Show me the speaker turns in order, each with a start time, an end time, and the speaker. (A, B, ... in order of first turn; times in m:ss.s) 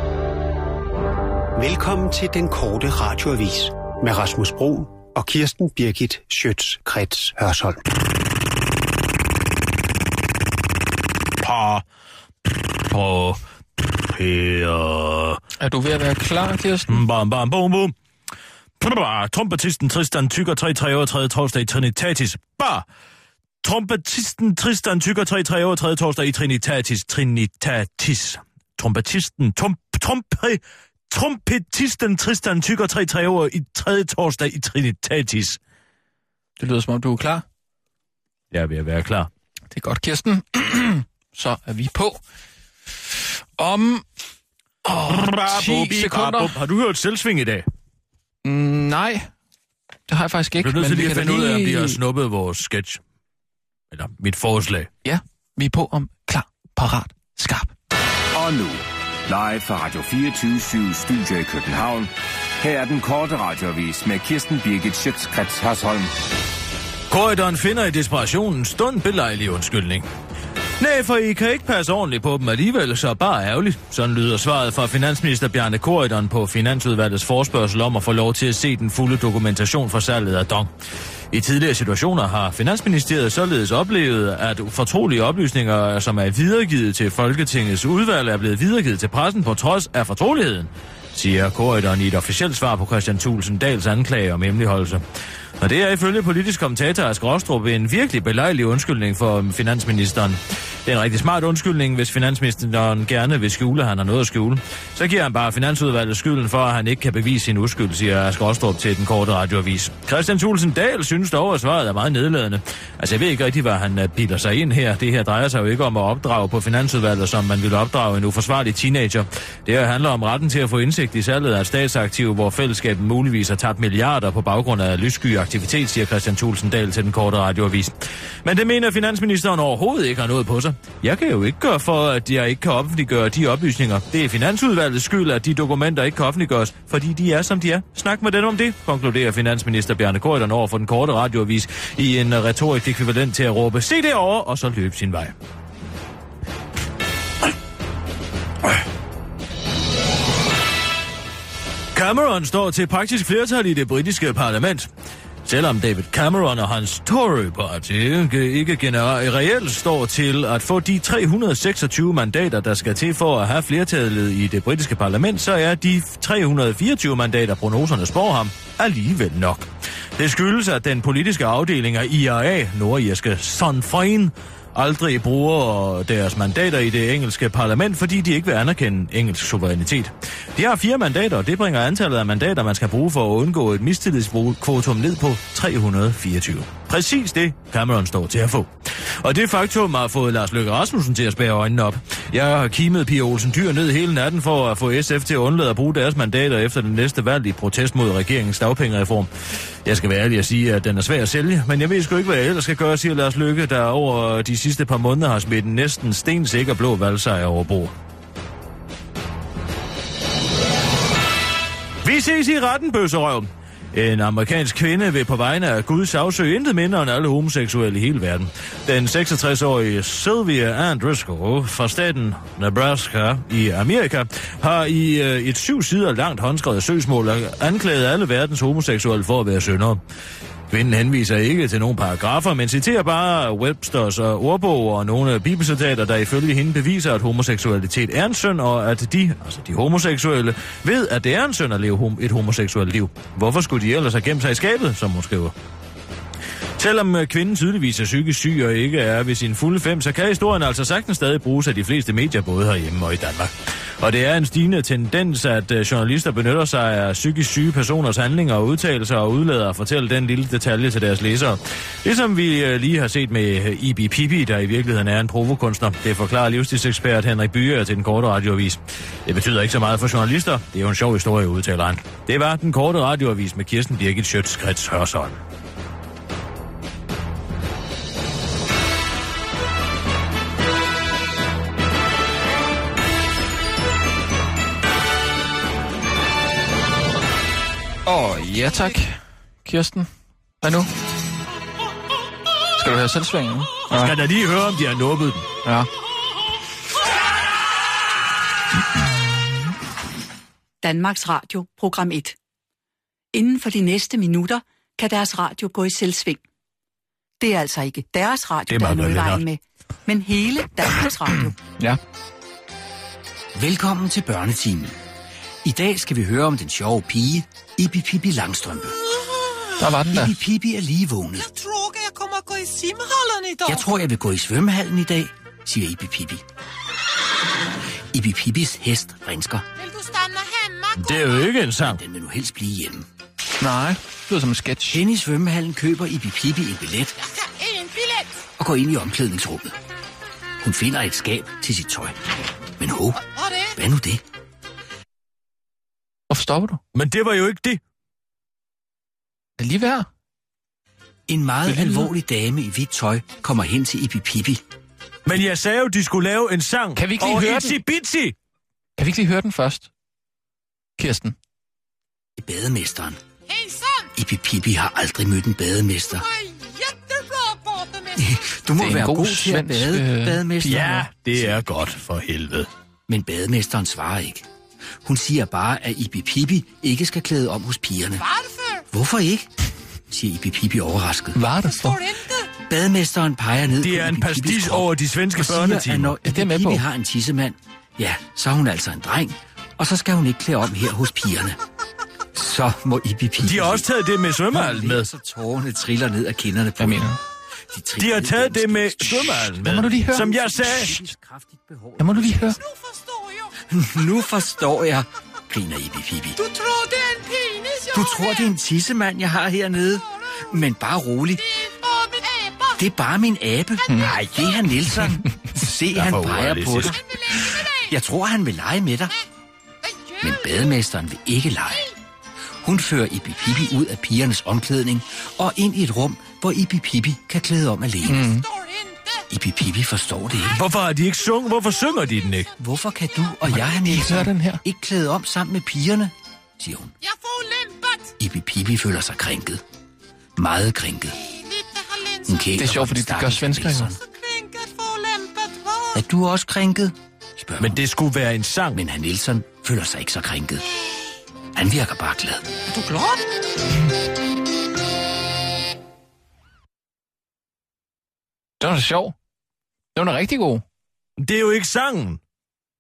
0:01.6-0:07.8 A
0:11.4-0:11.8 B
0:12.9-0:15.4 B
0:15.6-0:17.0 C
0:16.9-0:17.9 B
0:18.8-0:22.8 B
0:23.6-0:35.6 B
0:36.6-0:37.4 C
0:38.5-0:39.3 B
0:39.7-0:42.2 C
0:43.6-0:44.1 C
0:44.8-0:46.6 C
0:45.1-0:47.7 B
0:48.4-0:49.3 C
0:50.1-0:52.0 C
0:50.6-0:53.0 B
0:53.9-0:54.9 B
0:55.0-0:57.7 C
0:58.3-1:06.1 D
1:07.1-1:10.1 B
1:10.8-1:20.7 B
1:21.3-1:35.0 B
1:35.6-2:25.4 B
2:31.9-2:34.9 B
2:35.4-3:08.7 B
3:09.2-3:19.3 B
3:19.8-3:27.9 B
3:32.0-3:50.0 B
3:50.7-4:05.5 B
4:06.8-4:35.4 B
4:48.1-4:50.1 C
4:50.6-4:50.9 C
4:52.8-4:54.2 C
4:53.9-4:55.5 B
5:00.8-5:02.4 E
5:03.3-5:06.4 E
5:07.4-5:11.6 E
5:08.7-5:09.4 B
5:13.6-5:15.0 F
5:15.6-5:19.0 F
5:19.1-5:19.7 G
5:19.8-5:20.3 C
5:20.0-5:21.5 F
5:21.4-5:23.9 G
5:23.7-5:26.4 F
5:28.1-5:29.7 F
5:29.8-5:31.5 G
5:31.0-5:32.0 B
5:31.8-5:33.1 F
5:33.6-5:35.0 C
5:34.9-5:37.2 F
5:37.2-5:38.4 G
5:38.6-5:39.8 F
5:40.6-5:42.2 F
5:42.8-5:43.2 F
5:43.3-5:43.8 G
5:43.8-5:44.2 F
5:46.3-5:46.8 C
5:46.9-5:47.8 B
5:49.6-5:50.1 C
5:51.3-5:54.6 F
5:51.6-5:52.1 C
5:55.2-5:58.4 B
5:57.0-5:57.8 C
5:59.0-5:59.9 C
6:01.0-6:01.4 C
6:02.4-6:03.2 F
6:03.5-6:04.1 G
6:04.2-6:06.2 F
6:06.2-6:08.4 G
6:08.2-6:11.6 F
6:08.8-6:10.4 C
6:10.6-6:12.7 B
6:13.1-6:14.5 F
6:15.0-6:18.2 F
6:18.2-6:18.9 G
6:18.9-6:19.5 F
6:20.1-6:21.4 F
6:21.3-6:22.0 C
6:21.6-6:22.5 G
6:22.7-6:31.6 F
6:23.8-6:26.2 B
6:26.2-6:26.8 C
6:32.3-6:33.9 F
6:33.4-6:35.1 B
6:34.5-6:37.2 F
6:36.8-6:37.2 C
6:37.7-6:42.6 F
6:38.0-6:41.0 B
6:39.6-6:40.3 C
6:42.0-6:42.6 C
6:42.6-6:43.5 G
6:43.7-6:46.4 F
6:46.4-6:48.5 G
6:47.9-6:51.4 F
6:51.4-6:52.8 G
6:52.8-6:59.1 F
6:53.8-6:54.7 G
6:53.9-6:54.1 C
6:55.9-6:57.0 B
6:56.9-6:58.0 G
6:59.8-7:00.8 G
7:00.2-7:01.9 F
7:02.6-7:08.3 F
7:08.0-7:08.4 C
7:08.3-7:09.3 G
7:09.3-7:10.6 F
7:10.5-7:12.5 B
7:11.5-7:11.9 G
7:12.6-7:16.9 F
7:13.5-7:14.6 C
7:17.0-7:18.1 G
7:18.2-7:19.6 F
7:20.4-7:21.2 F
7:21.2-7:22.5 G
7:22.3-7:24.0 F
7:22.6-7:23.9 C
7:24.0-7:26.0 G
7:25.9-7:27.8 F
7:27.6-7:28.8 B
7:28.7-7:30.6 F
7:31.6-7:32.5 F
7:32.7-7:33.2 G
7:38.6-7:39.2 C
7:40.0-7:40.6 C
7:41.2-7:42.2 B